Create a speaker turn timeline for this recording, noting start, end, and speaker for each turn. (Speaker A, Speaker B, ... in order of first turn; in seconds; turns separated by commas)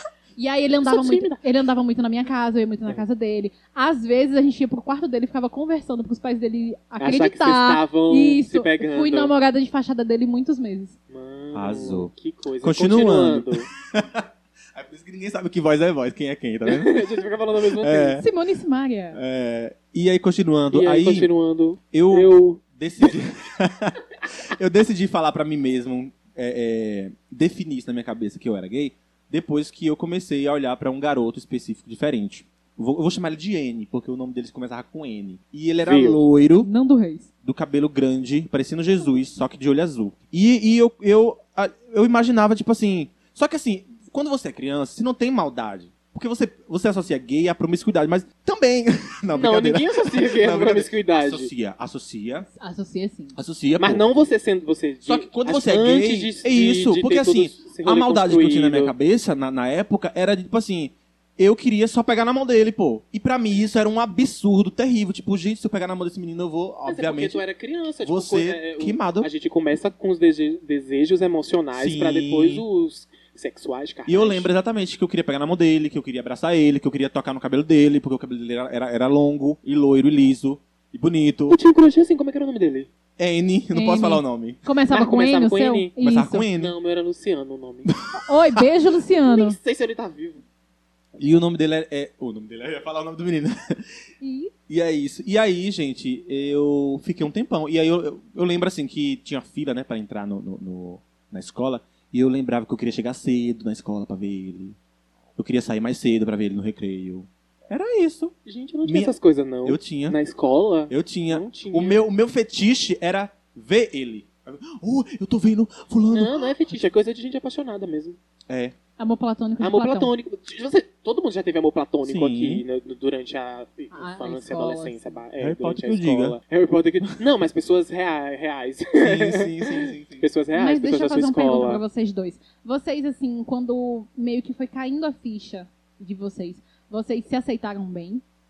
Speaker A: 0.4-10.9, Speaker B: 0.8-1.3, Speaker B: 7.0-9.3, Speaker B: 11.1-13.7, Speaker C: 11.5-12.1, Speaker C: 12.6-18.3, Speaker B: 16.6-18.2, Speaker A: 18.2-19.2, Speaker C: 19.1-21.3, Speaker B: 20.7-22.6, Speaker C: 21.9-36.7, Speaker B: 35.8-36.2, Speaker A: 36.6-37.3, Speaker C: 37.4-52.5, Speaker B: 49.3-51.5, Speaker A: 52.6-53.4, Speaker C: 53.4-54.0, Speaker B: 53.8-58.9, Speaker C: 55.0-67.4, Speaker B: 66.9-74.5, Speaker C: 68.0-69.3, Speaker C: 71.7-72.6, Speaker C: 74.1-81.6, Speaker B: 81.5-82.9, Speaker C: 83.2-84.6, Speaker A: 83.7-86.5, Speaker B: 84.9-86.0, Speaker C: 86.0-86.7, Speaker B: 86.5-87.9, Speaker A: 88.1-89.6, Speaker B: 89.2-90.4, Speaker C: 91.2-93.8, Speaker A: 94.2-94.5, Speaker C: 94.7-104.8, Speaker C: 105.4-108.3, Speaker B: 108.5-112.0, Speaker C: 108.9-110.2, Speaker C: 110.9-116.8, Speaker B: 116.1-118.2, Speaker C: 118.5-118.8, Speaker A: 119.0-120.1, Speaker B: 119.6-131.8, Speaker C: 122.0-122.6, Speaker A: 123.9-125.2, Speaker C: 125.4-126.4, Speaker C: 129.0-130.2, Speaker A: 130.5-138.2